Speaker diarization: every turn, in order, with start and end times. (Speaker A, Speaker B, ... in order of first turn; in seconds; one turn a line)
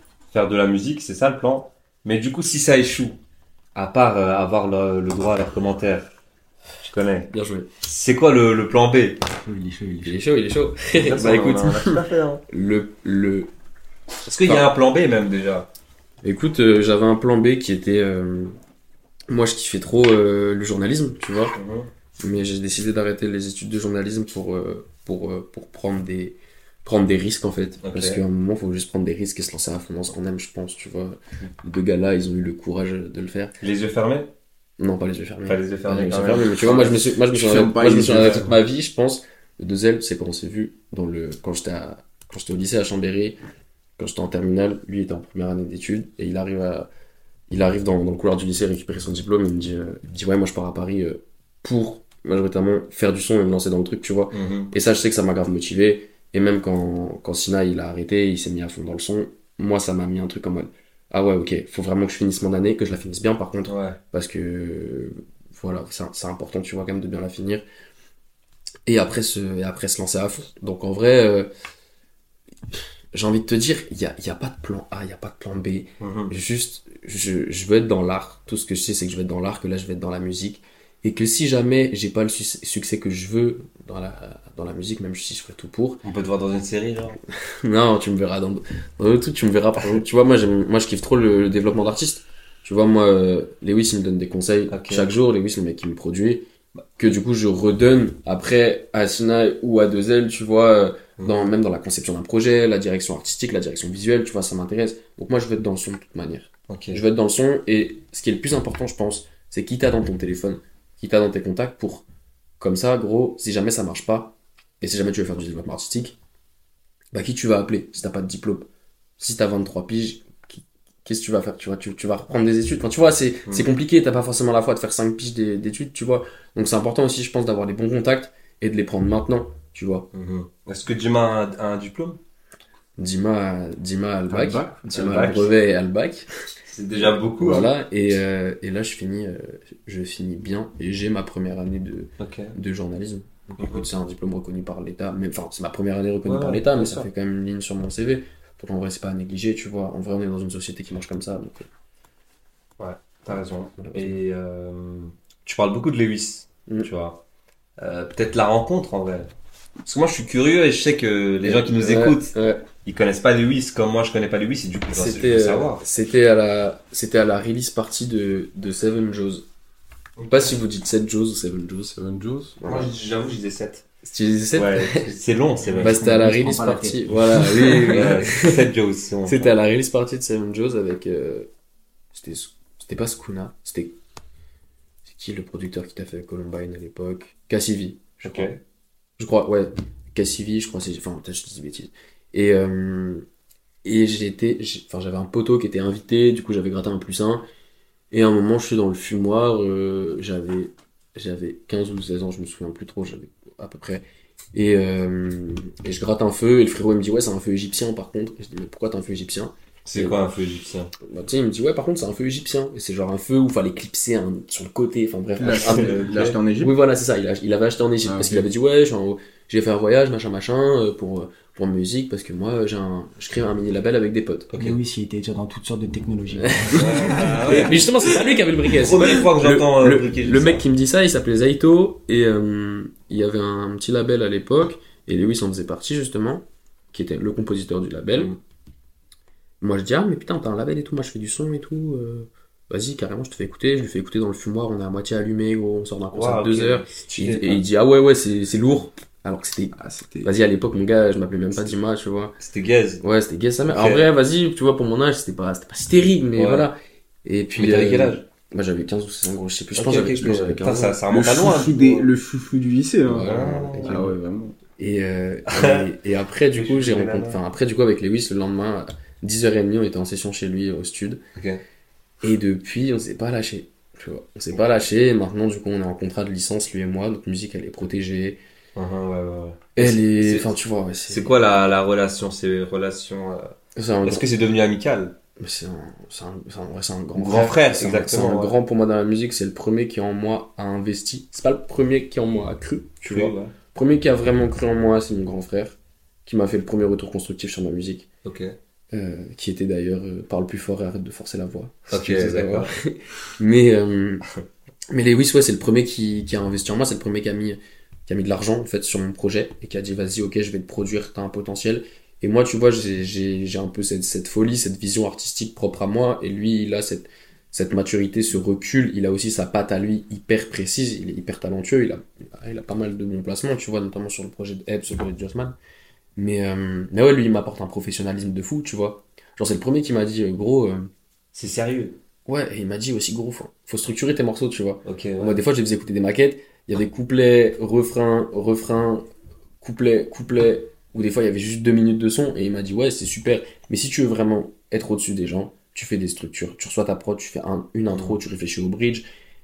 Speaker A: 0.3-3.2
Speaker A: 3.8-6.1
Speaker A: 6.8-7.3
Speaker B: 7.3-7.7
Speaker A: 7.8-9.2
Speaker C: 9.3-10.2
Speaker B: 10.0-11.9
Speaker A: 10.9-12.4
Speaker B: 12.5-13.5
Speaker A: 14.2-15.7
Speaker B: 16.2-18.6
Speaker B: 19.3-21.6
Speaker A: 21.6-21.9
Speaker B: 22.2-33.5
Speaker A: 27.8-28.2
Speaker A: 33.6-34.3
Speaker B: 34.8-43.4
Speaker A: 35.5-37.0
Speaker D: 37.3-38.5
Speaker B: 44.0-46.9
Speaker B: 47.5-67.7
Speaker A: 54.3-54.7
Speaker A: 63.6-64.0
Speaker B: 68.9-71.5
Speaker B: 73.1-86.0
Speaker A: 76.0-76.3
Speaker A: 86.0-87.2
Speaker B: 87.4-96.5
Speaker A: 94.7-95.1
Speaker B: 97.0-112.0
Speaker A: 101.2-101.5
Speaker A: 106.7-107.0
Speaker B: 112.6-116.2
Speaker B: 117.1-118.7
Speaker B: 119.2-130.1
Speaker A: 130.1-132.2
Speaker B: 133.0-136.3
Speaker D: 134.3-134.8
Speaker A: 134.9-135.5
Speaker A: 136.7-137.7
Speaker B: 137.0-151.7
Speaker A: 142.2-142.6
Speaker A: 143.6-143.8
Speaker A: 146.2-147.1
Speaker A: 152.8-157.2
Speaker B: 153.8-154.2
Speaker A: 157.8-159.3
Speaker A: 159.8-165.8
Speaker B: 161.4-162.7
Speaker B: 164.9-169.5
Speaker A: 170.2-170.5
Speaker B: 170.3-172.0
Speaker D: 171.9-172.5
Speaker B: 172.6-172.9
Speaker A: 172.7-173.8
Speaker B: 174.0-175.1
Speaker A: 174.6-176.0
Speaker B: 175.8-178.7
Speaker C: 175.8-177.2
Speaker A: 177.9-179.5
Speaker B: 179.3-181.5
Speaker B: 182.1-184.0
Speaker B: 185.1-188.5
Speaker A: 188.2-188.6
Speaker B: 189.2-193.3
Speaker B: 193.8-197.4
Speaker B: 198.1-210.2
Speaker A: 209.9-210.9
Speaker B: 211.0-224.5
Speaker D: 215.4-216.8
Speaker A: 215.6-216.4
Speaker D: 218.1-218.5
Speaker A: 224.5-224.8
Speaker C: 224.6-227.7
Speaker B: 226.3-238.3
Speaker A: 226.7-228.2
Speaker A: 228.7-230.7
Speaker B: 239.6-252.3
Speaker A: 246.1-247.6
Speaker D: 249.8-250.3
Speaker A: 252.4-253.0
Speaker B: 253.0-261.0
Speaker A: 253.7-254.1
Speaker A: 256.4-256.7
Speaker A: 257.6-258.2
Speaker A: 259.8-262.1
Speaker D: 260.2-260.6
Speaker D: 261.1-264.6
Speaker B: 263.1-264.1
Speaker A: 263.2-264.0
Speaker B: 264.8-271.2
Speaker A: 265.5-265.9
Speaker A: 266.6-267.4
Speaker A: 271.4-271.6
Speaker B: 272.2-278.4
Speaker A: 278.8-280.5
Speaker B: 279.8-281.4
Speaker A: 281.1-285.2
Speaker B: 283.8-284.2
Speaker B: 285.4-298.1
Speaker A: 287.2-288.6
Speaker A: 293.1-293.6
Speaker A: 298.2-298.6
Speaker B: 298.9-304.2
Speaker A: 301.9-302.7
Speaker B: 304.9-325.6
Speaker B: 326.2-330.9
Speaker A: 331.3-332.0
Speaker B: 332.3-339.1
Speaker A: 334.9-335.4
Speaker B: 339.6-349.1
Speaker A: 347.9-348.2